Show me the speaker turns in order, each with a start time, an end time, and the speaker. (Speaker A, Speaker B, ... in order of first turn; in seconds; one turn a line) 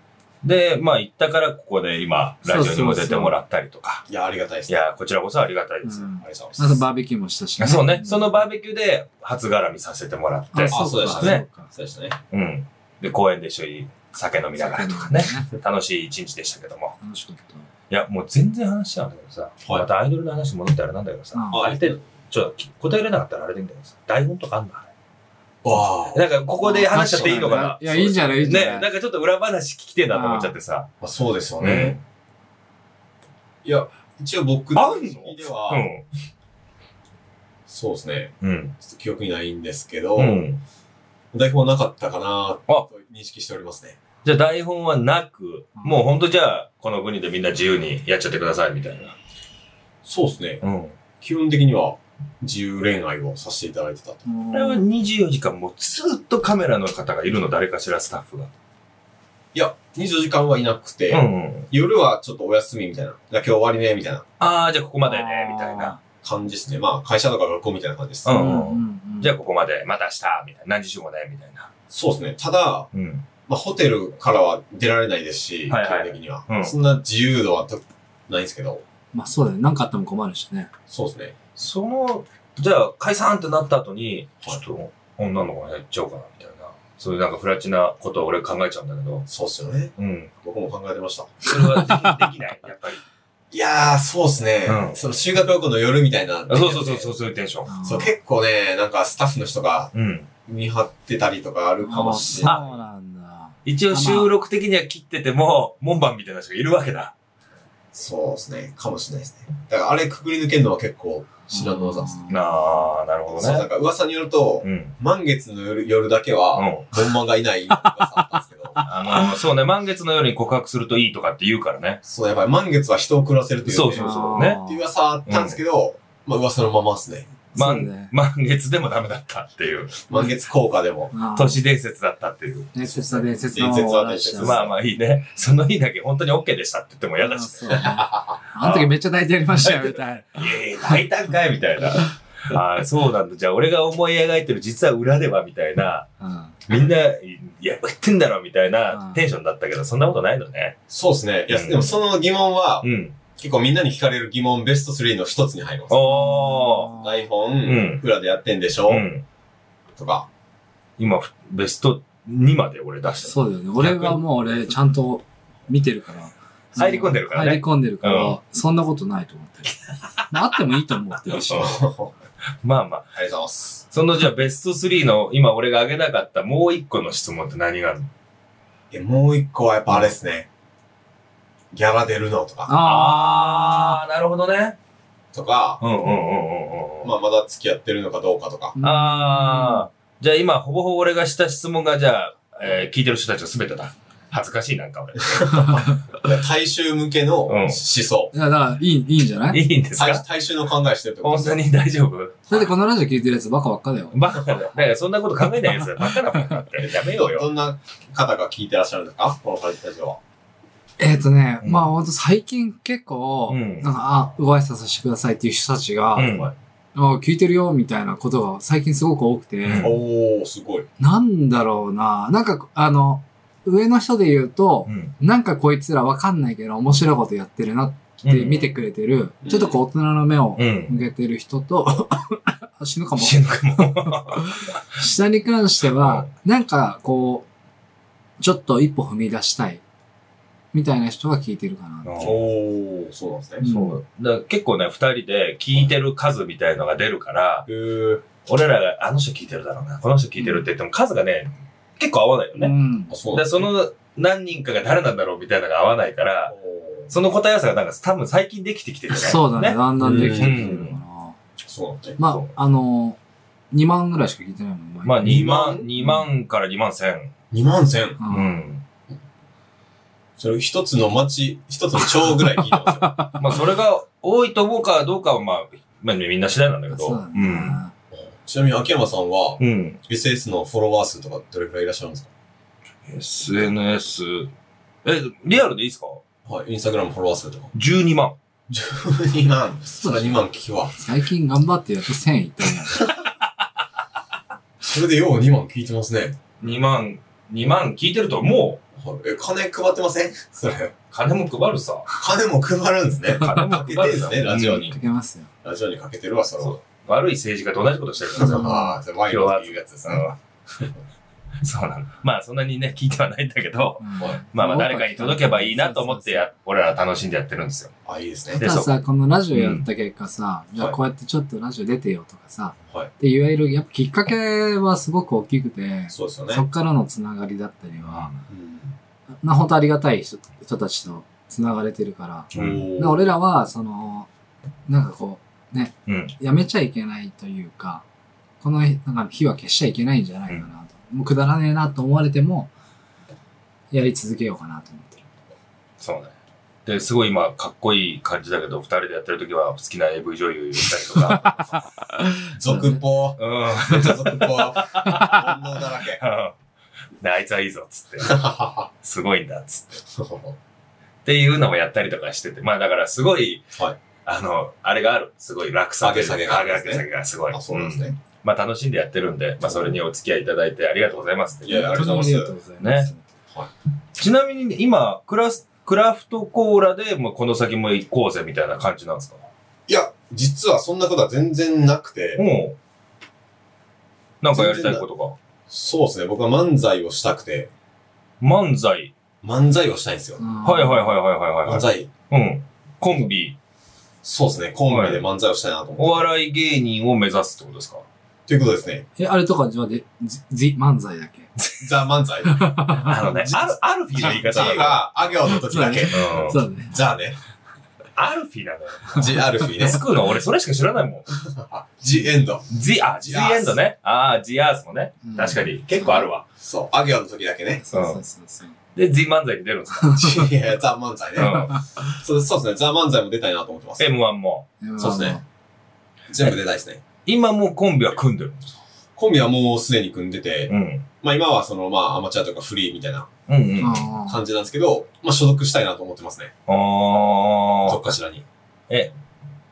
Speaker A: 0.4-4.1
Speaker B: 2.5-3.4
Speaker C: 4.1-4.8
Speaker A: 4.7-6.1
Speaker B: 5.8-8.4
Speaker C: 6.2-6.8
Speaker A: 7.6-11.5
Speaker B: 10.5-11.7
Speaker C: 10.7-12.2
Speaker A: 12.3-16.9
Speaker B: 14.6-15.5
Speaker B: 17.0-17.7
Speaker A: 17.9-24.9
Speaker B: 21.3-21.7
Speaker C: 21.5-22.0
Speaker C: 25.6-26.2
Speaker A: 26.1-30.9
Speaker B: 26.6-28.9
Speaker B: 30.1-30.6
Speaker C: 31.0-32.0
Speaker A: 31.6-32.0
Speaker C: 33.6-35.9
Speaker A: 34.8-36.1
Speaker C: 37.7-40.4
Speaker A: 38.4-38.8
Speaker A: 40.2-40.6
Speaker C: 41.3-44.0
Speaker A: 44.2-49.1
Speaker B: 45.8-46.1
Speaker C: 50.0-50.6
Speaker A: 50.6-51.0
Speaker C: 51.2-54.2
Speaker B: 54.3-54.8
Speaker A: 54.5-58.5
Speaker C: 59.5-64.3
Speaker A: 61.1-61.7
Speaker A: 64.4-66.0
Speaker B: 65.0-66.0
Speaker C: 66.2-68.3
Speaker A: 68.2-71.7
Speaker B: 68.3-69.3
Speaker C: 71.9-72.9
Speaker A: 72.9-73.3
Speaker C: 73.5-78.8
Speaker A: 75.7-76.7
Speaker B: 79.1-80.7
Speaker C: 80.9-81.3
Speaker A: 81.6-89.3
Speaker C: 89.3-91.4
Speaker A: 90.0-90.3
Speaker A: 91.5-93.0
Speaker B: 91.8-92.2
Speaker C: 93.5-97.1
Speaker A: 94.7-95.0
Speaker A: 96.5-97.7
Speaker B: 97.7-98.1
Speaker C: 97.8-99.9
Speaker A: 99.9-100.3
Speaker C: 100.5-102.6
Speaker B: 101.8-104.3
Speaker A: 102.4-102.8
Speaker A: 103.7-107.1
Speaker C: 107.9-112.3
Speaker B: 111.5-112.4
Speaker A: 112.3-113.7
Speaker C: 113.3-118.9
Speaker A: 114.6-115.0
Speaker A: 116.5-116.9
Speaker A: 118.8-122.0
Speaker C: 122.0-127.3
Speaker A: 123.7-124.6
Speaker B: 123.9-124.8
Speaker A: 125.3-125.6
Speaker B: 127.5-128.1
Speaker A: 127.6-130.1
Speaker C: 130.1-131.1
Speaker B: 131.1-131.6
Speaker A: 131.3-132.8
Speaker B: 132.7-134.7
Speaker C: 132.9-134.7
Speaker A: 134.4-137.9
Speaker B: 137.2-141.0
Speaker C: 137.7-138.4
Speaker A: 138.6-138.9
Speaker A: 139.6-146.1
Speaker B: 146.2-146.6
Speaker A: 146.7-150.8
Speaker B: 148.9-149.2
Speaker C: 150.9-156.1
Speaker A: 151.5-151.9
Speaker A: 152.8-153.2
Speaker A: 155.9-156.9
Speaker B: 156.0-157.2
Speaker C: 156.9-159.1
Speaker A: 157.7-158.0
Speaker A: 158.9-159.2
Speaker C: 160.0-160.3
Speaker A: 161.0-164.2
Speaker B: 163.2-169.8
Speaker A: 166.8-168.3
Speaker B: 170.3-171.8
Speaker A: 171.4-171.8
Speaker C: 171.5-172.1
Speaker A: 172.6-173.2
Speaker C: 173.2-173.8
Speaker A: 173.9-178.1
Speaker C: 178.9-180.5
Speaker C: 181.7-182.7
Speaker B: 182.7-184.0
Speaker A: 182.8-184.8
Speaker C: 185.3-185.8
Speaker A: 185.8-187.1
Speaker C: 187.0-188.8
Speaker B: 188.8-189.9
Speaker A: 188.8-195.8
Speaker C: 195.2-198.3
Speaker A: 197.5-197.8
Speaker B: 198.3-199.6
Speaker A: 199.5-200.2
Speaker C: 199.9-201.6
Speaker A: 201.2-202.6
Speaker B: 202.5-204.2
Speaker A: 204.1-207.5
Speaker C: 206.8-210.2
Speaker B: 211.0-216.3
Speaker A: 211.6-211.9
Speaker A: 213.5-213.9
Speaker A: 216.2-216.5
Speaker C: 216.2-216.5
Speaker B: 216.9-219.9
Speaker A: 219.6-220.0
Speaker C: 219.8-220.9
Speaker B: 221.0-237.5
Speaker A: 224.9-225.1
Speaker A: 228.2-228.7
Speaker C: 229.4-229.8
Speaker A: 230.6-231.0
Speaker A: 233.2-235.0
Speaker A: 235.9-236.3
Speaker B: 238.4-239.8
Speaker B: 240.7-242.3
Speaker A: 242.0-242.4
Speaker C: 242.2-243.7
Speaker B: 243.6-244.0
Speaker A: 243.6-247.7
Speaker C: 247.7-248.3
Speaker A: 248.5-252.7
Speaker B: 252.6-253.1
Speaker C: 253.1-253.7
Speaker A: 253.3-256.6
Speaker C: 256.5-257.1
Speaker A: 257.1-261.0
Speaker B: 259.2-261.4
Speaker C: 260.0-260.8
Speaker C: 261.6-262.2
Speaker B: 262.2-263.2
Speaker A: 262.2-262.5
Speaker B: 263.7-265.4
Speaker A: 265.0-267.3
Speaker C: 265.2-265.9
Speaker C: 267.5-268.2
Speaker B: 268.2-268.5
Speaker A: 268.3-268.8
Speaker C: 270.4-273.3
Speaker B: 272.4-273.4
Speaker A: 273.4-277.8
Speaker B: 276.9-277.9
Speaker C: 278.1-282.3
Speaker A: 279.6-280.0
Speaker A: 283.1-284.5
Speaker A: 285.1-286.2
Speaker C: 286.5-287.7
Speaker A: 287.7-288.4
Speaker C: 288.7-291.0
Speaker B: 290.0-290.4
Speaker B: 291.0-293.1
Speaker C: 294.8-296.4
Speaker A: 296.6-298.8
Speaker C: 299.0-300.9
Speaker A: 301.1-302.1
Speaker C: 302.1-305.0
Speaker A: 303.4-304.9
Speaker B: 304.9-305.5
Speaker C: 305.6-306.8
Speaker A: 306.6-310.4
Speaker C: 308.4-310.2
Speaker B: 308.6-308.9
Speaker A: 311.6-317.9
Speaker B: 314.0-316.5
Speaker C: 318.1-318.6
Speaker A: 318.6-318.9
Speaker B: 318.6-328.3
Speaker A: 319.5-319.9
Speaker C: 326.1-326.6
Speaker A: 328.1-328.4
Speaker C: 328.5-328.9
Speaker B: 329.4-334.3
Speaker C: 332.5-333.2
Speaker A: 332.5-332.8
Speaker B: 334.9-338.0
Speaker A: 336.1-336.3
Speaker B: 338.6-342.7
Speaker B: 343.9-345.3
Speaker A: 346.0-351.6
Speaker C: 351.3-351.5
Speaker B: 352.5-353.0
Speaker C: 352.5-356.2
Speaker A: 353.4-355.5
Speaker B: 355.0-355.4
Speaker A: 356.2-356.6
Speaker A: 357.2-360.0
Speaker C: 358.2-358.9
Speaker C: 360.1-360.6
Speaker A: 361.2-372.1
Speaker C: 366.0-368.1
Speaker C: 369.6-370.0
Speaker C: 371.6-372.5
Speaker B: 371.7-373.2
Speaker A: 372.8-373.1
Speaker A: 374.2-379.4
Speaker C: 379.9-382.4
Speaker A: 382.4-382.8
Speaker A: 384.4-385.4
Speaker C: 384.5-385.1
Speaker C: 385.7-387.7
Speaker A: 388.4-389.1
Speaker C: 389.4-390.4
Speaker B: 390.4-391.1
Speaker A: 390.6-393.6
Speaker C: 391.6-392.1
Speaker C: 394.2-396.3
Speaker A: 394.9-395.2
Speaker A: 396.0-398.1
Speaker C: 398.5-399.1
Speaker B: 399.2-401.5
Speaker C: 401.8-407.4
Speaker B: 402.5-403.2
Speaker A: 403.0-405.0
Speaker B: 405.5-406.9
Speaker A: 406.1-406.6
Speaker A: 408.2-411.3
Speaker C: 409.1-410.0
Speaker C: 411.3-412.7
Speaker A: 412.7-416.5
Speaker C: 413.2-413.8
Speaker B: 415.2-416.2
Speaker C: 416.6-417.8
Speaker B: 417.8-418.8
Speaker A: 417.9-418.2
Speaker A: 418.9-420.3
Speaker C: 420.1-424.1
Speaker A: 421.4-421.8
Speaker A: 424.0-424.7
Speaker B: 424.8-425.4
Speaker C: 425.0-425.4
Speaker C: 426.3-427.0
Speaker A: 427.2-428.8
Speaker C: 429.2-433.3
Speaker A: 430.7-431.1
Speaker A: 433.5-434.1
Speaker B: 433.8-434.4
Speaker C: 434.2-436.5
Speaker A: 436.7-438.1
Speaker C: 437.8-438.4